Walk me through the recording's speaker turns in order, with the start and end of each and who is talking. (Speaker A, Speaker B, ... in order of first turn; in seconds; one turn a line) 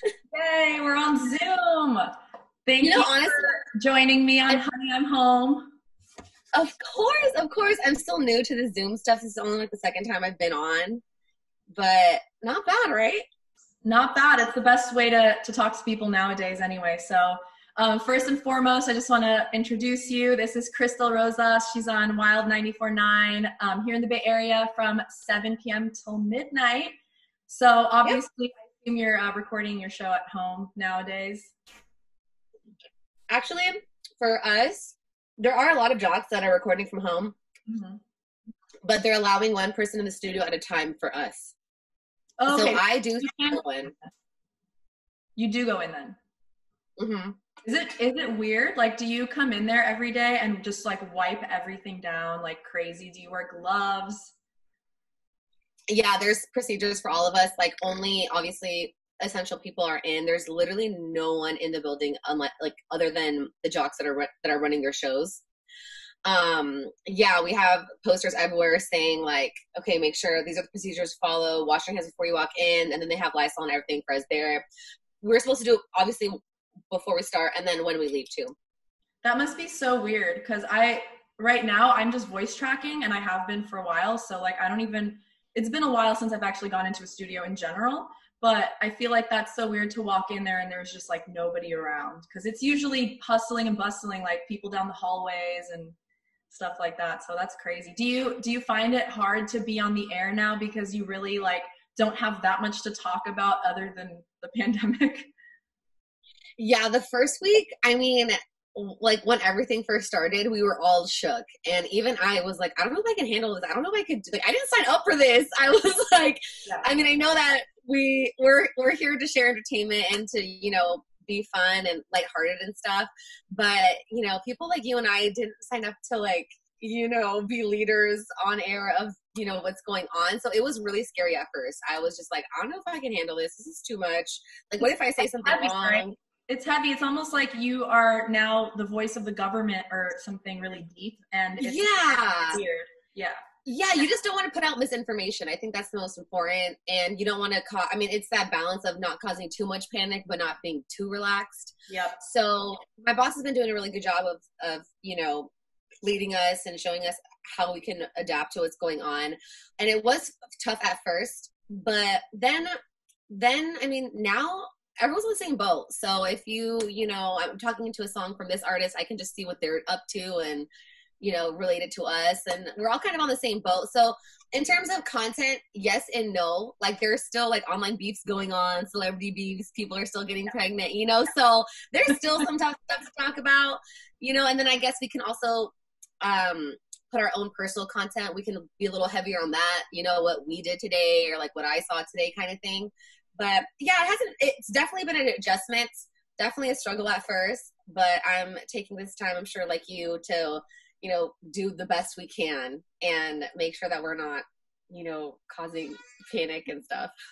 Speaker A: 0.3-2.1
Speaker A: 2.6-5.7
Speaker B: 2.8-3.6
Speaker B: 6.5-11.0
Speaker B: 11.7-13.2
Speaker A: 13.8-26.9
Speaker A: 27.5-31.5
Speaker B: 33.3-37.4
Speaker A: 37.7-38.0
Speaker B: 38.8-41.5
Speaker A: 42.4-43.6
Speaker B: 42.5-43.9
Speaker A: 45.4-46.2
Speaker B: 47.0-47.4
Speaker A: 47.6-54.3
Speaker B: 55.9-65.4
Speaker B: 66.2-74.6
Speaker B: 75.2-76.4
Speaker B: 76.9-78.5
Speaker A: 79.2-96.0
Speaker A: 96.5-105.3
Speaker B: 106.6-136.2
Speaker A: 116.6-116.9
Speaker A: 134.8-143.4
Speaker B: 141.6-142.6
Speaker B: 143.6-155.5
Speaker A: 151.9-152.2
Speaker B: 156.0-162.8
Speaker B: 163.3-170.7
Speaker B: 171.2-207.1